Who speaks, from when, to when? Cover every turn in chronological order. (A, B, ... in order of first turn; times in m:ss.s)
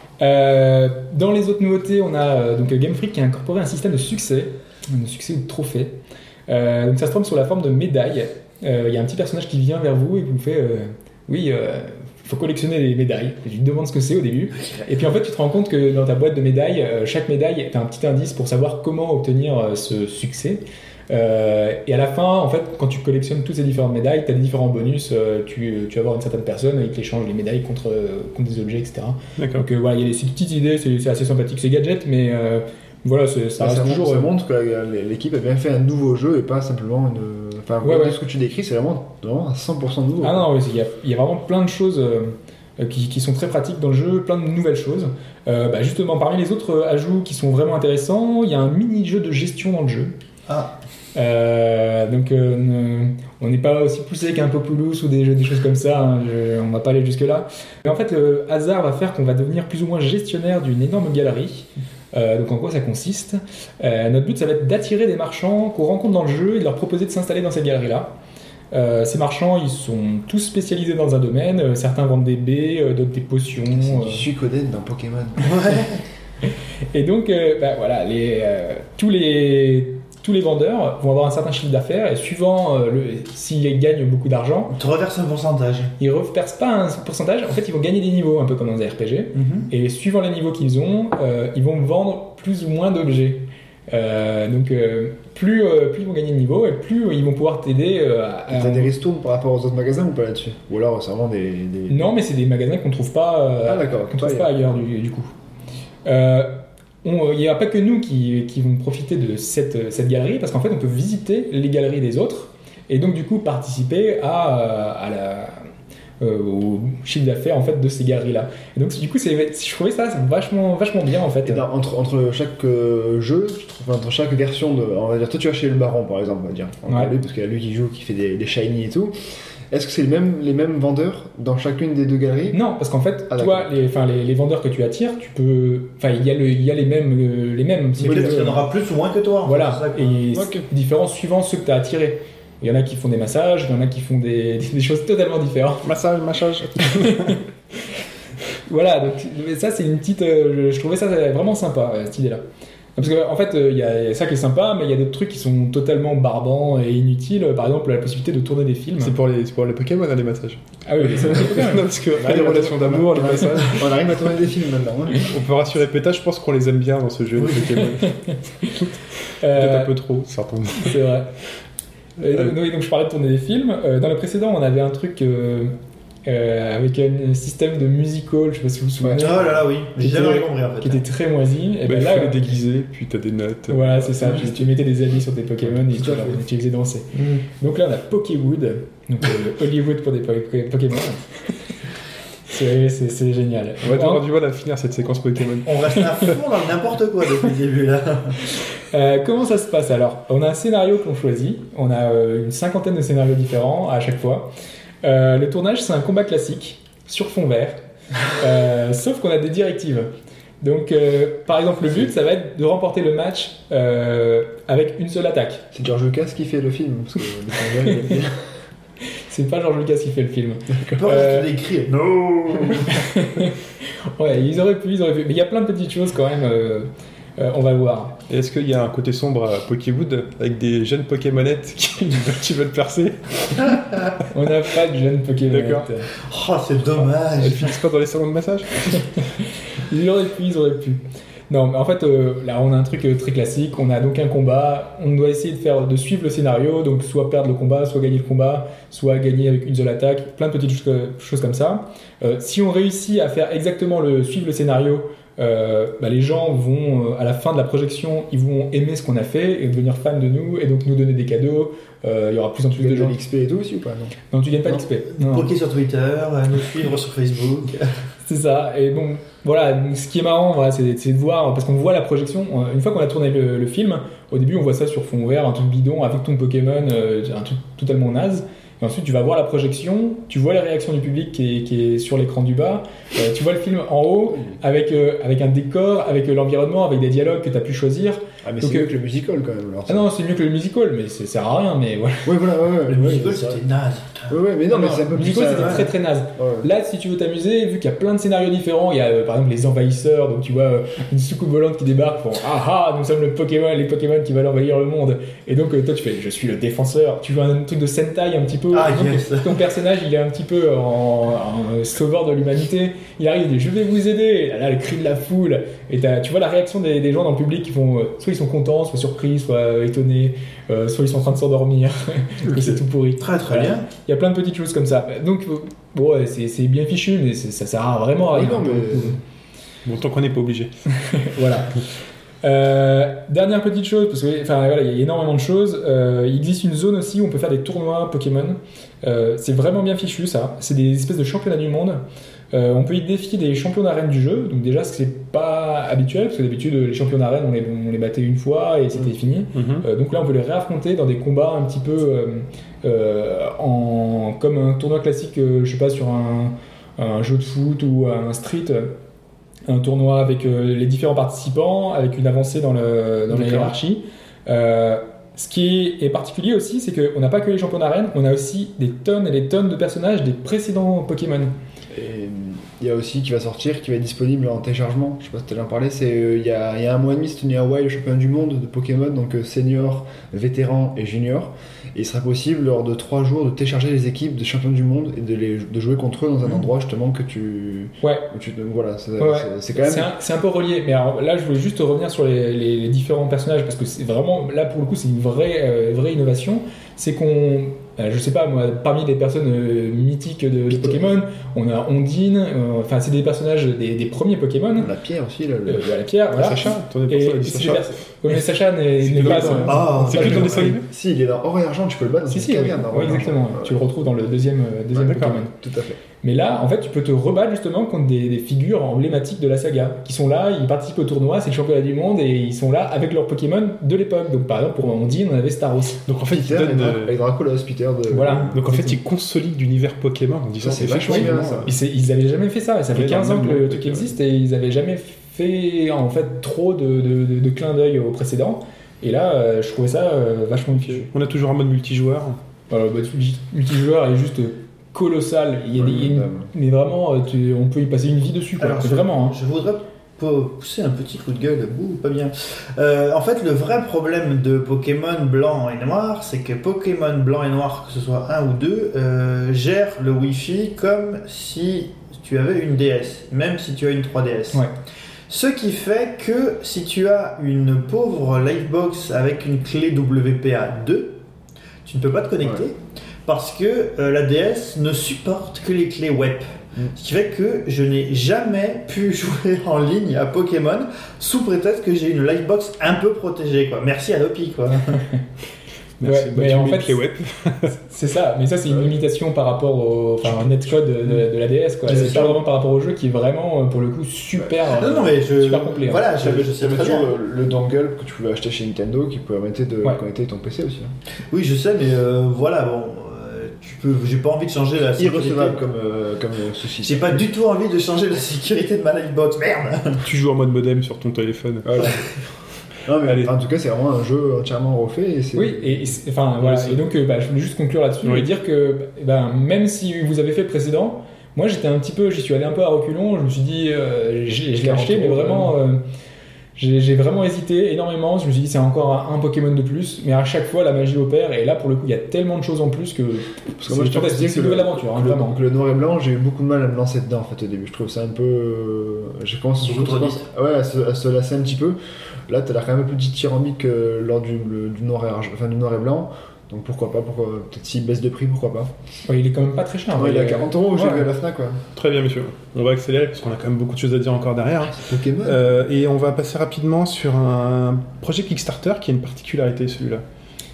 0:00.2-0:34.3 A
0:29.4-0:29.7 B
0:33.6-0:40.5 C
0:37.8-0:38.2 A
0:40.2-0:50.2 A
0:50.5-0:50.7 D
0:51.1-1:08.1 A
1:08.7-1:14.3 A
1:13.7-1:15.8 C
1:15.4-1:16.0 D
1:16.9-1:24.7 A
1:24.7-1:25.9 D
1:26.0-1:38.9 A
1:29.3-1:29.7 D
1:38.5-1:42.1 C
1:41.9-1:45.3 A
1:43.6-1:44.8 C
1:46.0-1:55.7 A
1:56.2-2:01.6 A
2:01.4-2:09.1 C
2:06.9-2:07.1 A
2:09.7-2:12.6 C
2:12.5-2:18.7 A
2:13.3-2:13.7 C
2:18.0-2:18.6 C
2:18.0-2:20.2 D
2:19.4-2:25.9 A
2:20.3-2:20.6 C
2:25.8-2:27.4 B
2:28.7-2:32.4 A
2:33.0-2:39.2 A
2:39.0-2:44.2 B
2:40.8-2:41.9 A
2:42.1-2:45.3 C
2:45.2-2:48.2 B
2:47.4-2:47.8 D
2:47.8-2:48.8 A
2:49.4-2:49.9 A
2:49.5-2:51.0 B
2:50.8-2:51.3 A
2:52.2-3:02.6 A
2:59.0-2:59.4 C
2:59.2-3:01.0 D
3:01.8-3:04.6 B
3:03.7-3:11.5 A
3:05.7-3:06.4 C
3:07.2-3:07.4 D
3:12.5-3:14.2 A
3:13.8-3:16.3 B
3:15.6-3:18.4 D
3:18.9-3:24.5 A
3:25.0-3:35.6 A
3:35.7-3:38.4 C
3:39.3-3:41.5 A
3:40.7-3:41.1 C
3:41.0-3:43.0 D
3:42.9-3:43.5 A
3:44.2-3:48.2 A
3:48.3-3:53.8 B
3:54.3-3:56.1 A
3:55.5-3:55.9 B
3:56.3-3:57.8 D
3:57.4-3:59.2 B
3:59.8-4:23.2 A
4:22.7-4:24.2 C
4:24.3-4:25.5 A
4:25.1-4:27.9 D
4:28.2-4:48.9 A
4:44.3-4:44.6 C
4:48.4-4:50.1 C
4:49.9-4:52.3 A
4:52.2-4:53.6 C
4:52.9-4:54.4 D
4:54.3-4:56.7 C
4:54.7-5:29.2 A
4:55.2-4:55.9 D
5:08.7-5:09.6 D
5:22.5-5:22.8 B
5:23.2-5:23.8 D
5:28.3-5:29.2 C
5:29.8-5:30.7 B
5:31.1-5:31.8 A
5:32.4-5:58.9 A
5:49.5-5:49.8 B
5:59.7-6:11.5 A
6:03.3-6:03.7 B
6:11.9-6:30.1 C
6:28.0-6:28.3 A
6:29.2-6:44.9 A
6:40.7-6:41.1 C
6:44.8-6:45.9 C
6:45.7-6:50.8 A
6:46.3-6:48.5 B
6:49.0-6:50.8 B
6:49.6-6:50.7 D
6:50.1-6:53.7 C
6:52.3-6:55.5 A
6:54.9-6:56.0 C
6:56.2-7:06.0 A
7:06.1-7:07.1 B
7:06.2-7:08.6 C
7:08.1-7:09.0 A
7:08.5-7:11.7 B
7:10.6-7:11.7 C
7:11.0-7:21.1 A
7:12.9-7:14.1 B
7:20.7-7:22.4 B
7:22.7-7:29.4 A
7:25.8-7:26.5 C
7:28.6-7:44.6 D
7:45.3-7:51.2 D
7:51.8-8:05.0 D
8:04.9-8:05.2 A
8:06.0-8:07.8 B
8:06.0-8:07.0 A
8:07.7-8:16.1 A
8:10.2-8:11.1 B
8:11.9-8:12.4 C
8:11.9-8:12.2 D
8:14.3-8:14.8 C
8:14.7-8:17.1 D
8:16.1-8:20.9 C
8:21.3-8:25.6 D
8:25.0-8:27.3 C
8:26.8-8:30.0 D
8:30.0-8:32.1 B
8:31.6-8:32.0 C
8:32.8-8:36.0 C
8:33.0-8:33.3 B
8:35.3-8:45.8 A
8:36.4-8:36.8 B
8:44.6-8:45.6 C
8:46.6-8:55.4 A
8:53.6-9:01.8 C
8:59.6-9:00.2 D
9:02.3-9:08.7 C
9:09.1-9:11.1 A
9:09.9-9:11.6 C
9:11.7-9:20.0 B
9:14.6-9:15.5 C